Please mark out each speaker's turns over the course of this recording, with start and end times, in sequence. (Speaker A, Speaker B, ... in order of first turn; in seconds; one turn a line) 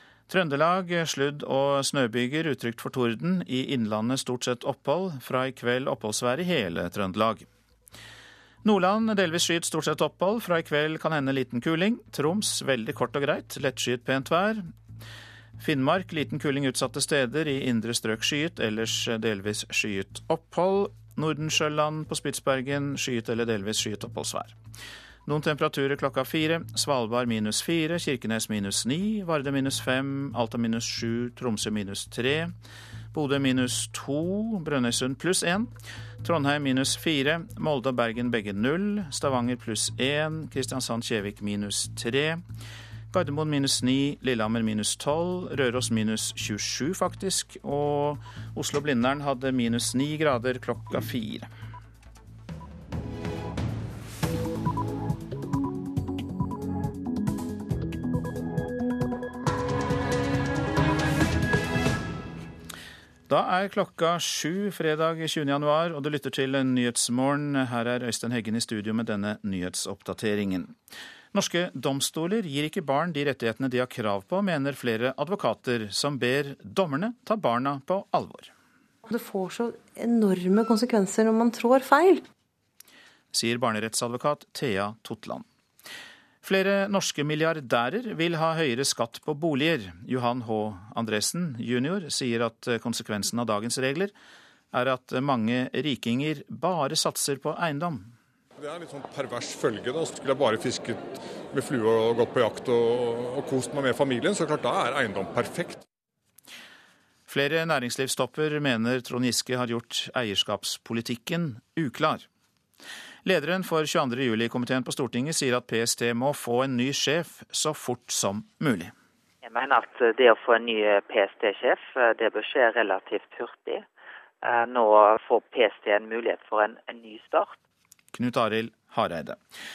Speaker A: 0.3-7.5
Speaker A: 8.6-14.7
Speaker A: 15.6-24.6
Speaker A: 25.3-32.5
Speaker A: 33.1-35.7
Speaker A: 36.2-42.4
Speaker A: 43.1-51.5
Speaker A: 63.3-70.7
Speaker A: 71.3-78.5
Speaker B: 79.1-82.2
Speaker A: 83.3-85.5
Speaker A: 86.4-94.1
Speaker A: 94.7-98.1
Speaker C: 98.6-105.8
Speaker A: 107.3-112.3
Speaker A: 113.2-118.9
Speaker D: 119.4-123.8
Speaker D: 124.4-127.6
Speaker A: 128.1-129.4